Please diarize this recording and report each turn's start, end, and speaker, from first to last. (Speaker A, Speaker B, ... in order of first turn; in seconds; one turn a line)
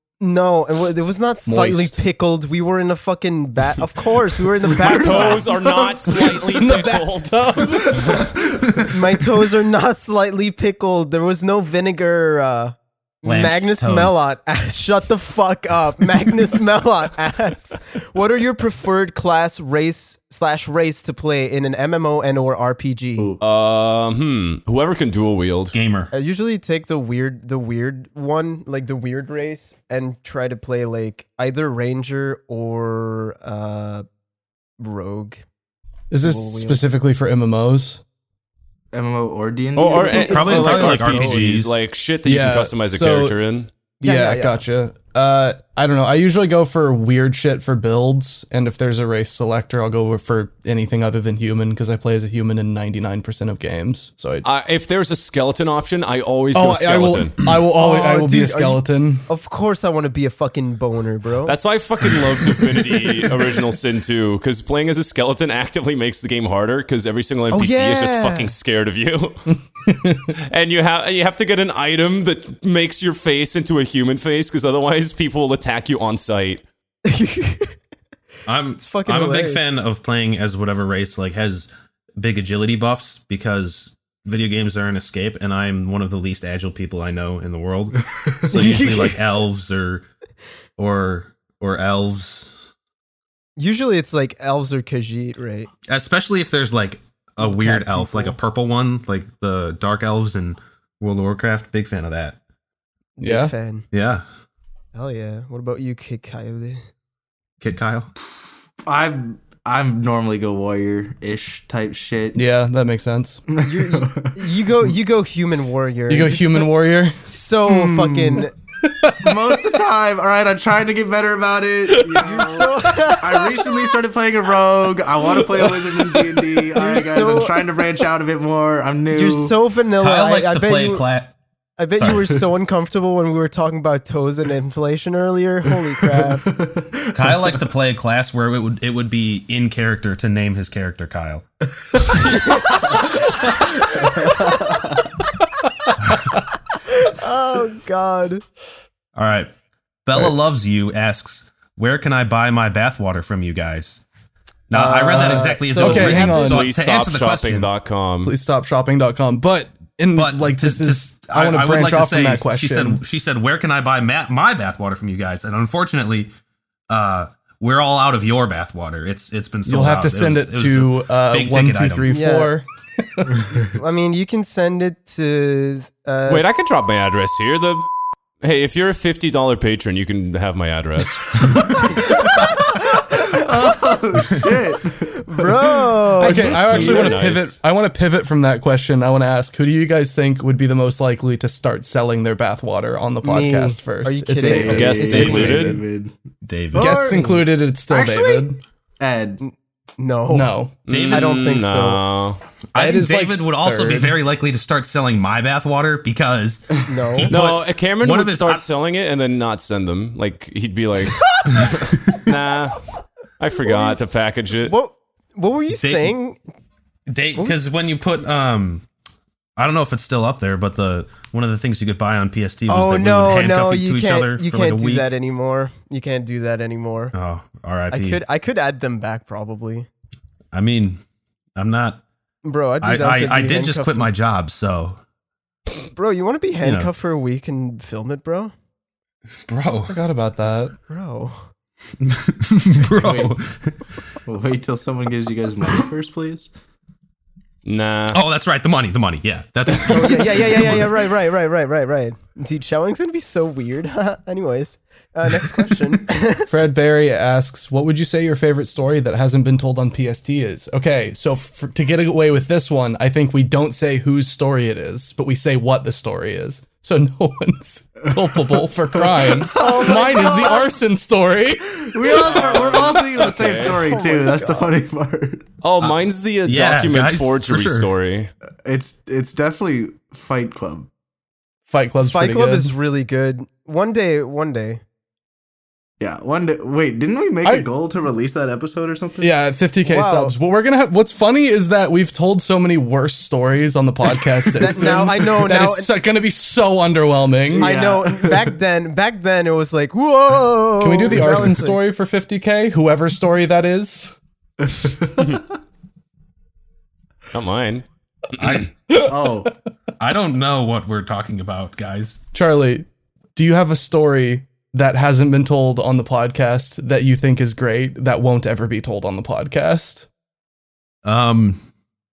Speaker A: 0.2-5.5
Speaker B: 1.5-2.0
Speaker C: 4.6-6.5
Speaker D: 4.7-8.0
Speaker B: 6.5-8.3
Speaker C: 7.8-8.9
Speaker A: 8.8-23.3
Speaker E: 13.2-14.3
Speaker D: 23.4-25.8
Speaker E: 25.7-26.1
Speaker A: 26.1-34.1
Speaker A: 34.8-35.4
Speaker B: 36.1-38.0
Speaker A: 36.2-36.9
Speaker C: 38.9-40.3
Speaker D: 39.8-43.7
Speaker A: 39.8-41.5
Speaker E: 40.1-41.7
Speaker B: 40.6-41.1
Speaker B: 42.2-43.4
Speaker A: 44.0-44.6
Speaker B: 44.0-54.5
Speaker D: 54.4-57.3
Speaker B: 56.5-59.2
Speaker A: 57.7-61.6
Speaker D: 61.5-69.6
Speaker A: 67.5-68.5
Speaker B: 69.9-70.3
Speaker D: 70.4-76.6
Speaker A: 77.1-77.7
Speaker E: 78.5-90.1
Speaker A: 78.8-79.7
Speaker C: 88.0-88.5
Speaker A: 88.5-89.2
Speaker E: 90.8-92.5
Speaker A: 93.6-95.7
Speaker E: 95.9-102.4
Speaker A: 97.4-98.4
Speaker A: 103.2-103.9
Speaker B: 103.2-103.5
Speaker E: 103.9-104.2
Speaker A: 104.9-106.8
Speaker E: 107.6-108.1
Speaker C: 108.8-112.4
Speaker B: 112.3-113.4
Speaker C: 113.5-114.5
Speaker A: 113.6-118.5
Speaker B: 116.1-117.2
Speaker C: 117.7-118.4
Speaker B: 118.8-119.5
Speaker C: 119.2-129.6
Speaker A: 122.2-123.7
Speaker B: 125.5-126.4
Speaker A: 126.7-127.8
Speaker A: 129.1-131.1
Speaker E: 130.0-131.3
Speaker A: 131.8-136.5
Speaker E: 132.0-132.3
Speaker C: 136.1-137.4
Speaker E: 137.1-141.4
Speaker A: 142.3-142.8
Speaker C: 143.9-145.0
Speaker A: 146.8-148.4
Speaker E: 149.2-149.5
Speaker E: 150.1-154.0
Speaker E: 154.7-157.7
Speaker A: 154.7-156.6
Speaker B: 155.1-156.7
Speaker D: 156.1-158.3
Speaker B: 158.2-163.0
Speaker E: 160.2-166.3
Speaker E: 166.9-172.1
Speaker B: 169.7-173.4
Speaker A: 172.1-172.6
Speaker A: 173.5-176.4
Speaker D: 176.3-177.9
Speaker D: 178.4-181.6
Speaker C: 181.4-185.9
Speaker A: 185.2-187.2
Speaker D: 186.2-187.6
Speaker B: 186.2-195.8
Speaker A: 193.2-195.1
Speaker C: 194.4-196.1
Speaker D: 194.7-195.8
Speaker E: 195.1-195.7
Speaker E: 196.4-197.2
Speaker C: 196.7-199.4
Speaker B: 196.8-198.6
Speaker A: 199.4-200.5
Speaker B: 200.3-200.7
Speaker D: 200.9-202.4
Speaker E: 200.9-201.5
Speaker A: 201.1-202.0
Speaker E: 202.7-208.7
Speaker B: 202.8-204.2
Speaker A: 206.9-207.4
Speaker D: 207.3-214.7
Speaker A: 213.7-216.4
Speaker E: 215.7-216.2
Speaker E: 217.1-218.9
Speaker E: 219.6-225.1
Speaker A: 222.7-227.1
Speaker E: 227.1-228.2
Speaker A: 227.9-229.9
Speaker E: 230.5-231.0
Speaker E: 231.6-232.0
Speaker A: 232.4-234.1
Speaker E: 232.8-235.0
Speaker A: 235.9-238.5
Speaker E: 236.6-236.9
Speaker E: 239.5-240.0
Speaker B: 239.9-240.8
Speaker A: 240.9-241.5
Speaker E: 242.0-243.8
Speaker C: 242.9-243.3
Speaker C: 244.3-246.5
Speaker D: 247.7-248.2
Speaker E: 248.1-250.9
Speaker A: 249.8-256.5
Speaker B: 256.5-272.4
Speaker C: 269.2-270.6
Speaker A: 269.6-270.7
Speaker C: 271.7-275.5
Speaker D: 272.2-273.9
Speaker A: 273.5-274.7
Speaker D: 275.6-278.3
Speaker E: 276.4-277.9
Speaker C: 278.6-280.9
Speaker B: 281.7-282.7
Speaker A: 282.0-284.8
Speaker C: 286.0-289.3
Speaker B: 289.2-297.7
Speaker A: 289.8-290.4
Speaker A: 294.6-295.9
Speaker C: 297.5-298.5
Speaker A: 297.6-301.8
Speaker B: 300.8-304.2
Speaker D: 307.3-308.7
Speaker E: 308.4-308.7
Speaker C: 308.9-309.5
Speaker E: 310.0-312.2
Speaker B: 312.3-320.1
Speaker E: 321.0-321.7